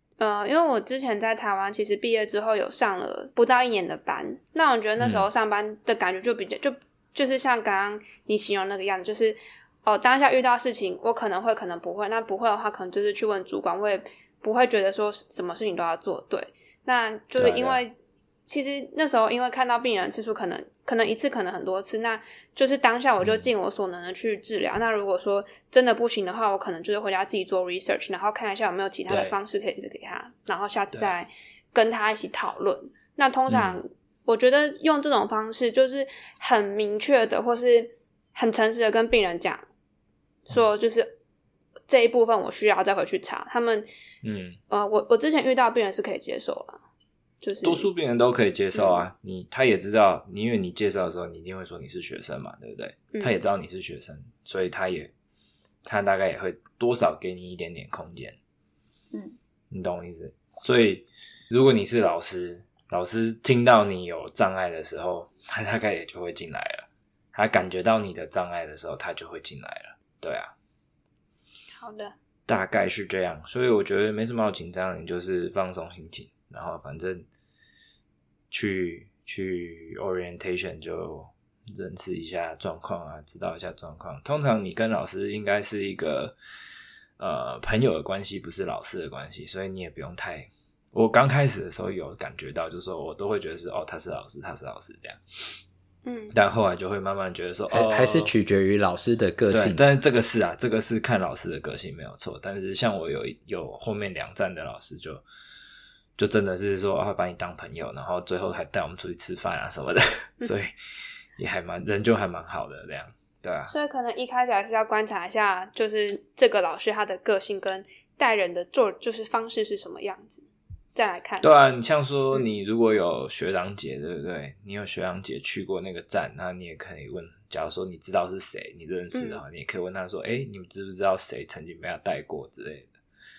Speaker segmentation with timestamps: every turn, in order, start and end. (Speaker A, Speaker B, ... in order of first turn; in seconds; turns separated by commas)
Speaker A: 0.2-17.9, Speaker B: 5.0-5.3, Speaker B: 17.4-17.7, Speaker A: 18.5-39.6, Speaker B: 23.2-23.5, Speaker B: 29.1-29.4, Speaker B: 33.5-33.8, Speaker A: 40.5-41.1, Speaker A: 41.9-43.9, Speaker B: 44.2-44.6, Speaker A: 44.7-46.8, Speaker A: 47.4-47.9, Speaker B: 47.6-55.1, Speaker A: 48.7-49.0, Speaker A: 53.1-53.4, Speaker B: 55.8-58.4, Speaker B: 59.7-70.5, Speaker A: 71.8-72.1, Speaker B: 72.5-77.2, Speaker B: 78.5-86.3, Speaker B: 87.2-95.6, Speaker A: 96.0-96.3, Speaker B: 96.3-98.3, Speaker C: 97.7-99.8, Speaker B: 99.5-105.2, Speaker B: 106.2-110.7, Speaker B: 111.4-113.7, Speaker A: 113.7-121.5, Speaker B: 121.4-132.9, Speaker A: 129.1-129.4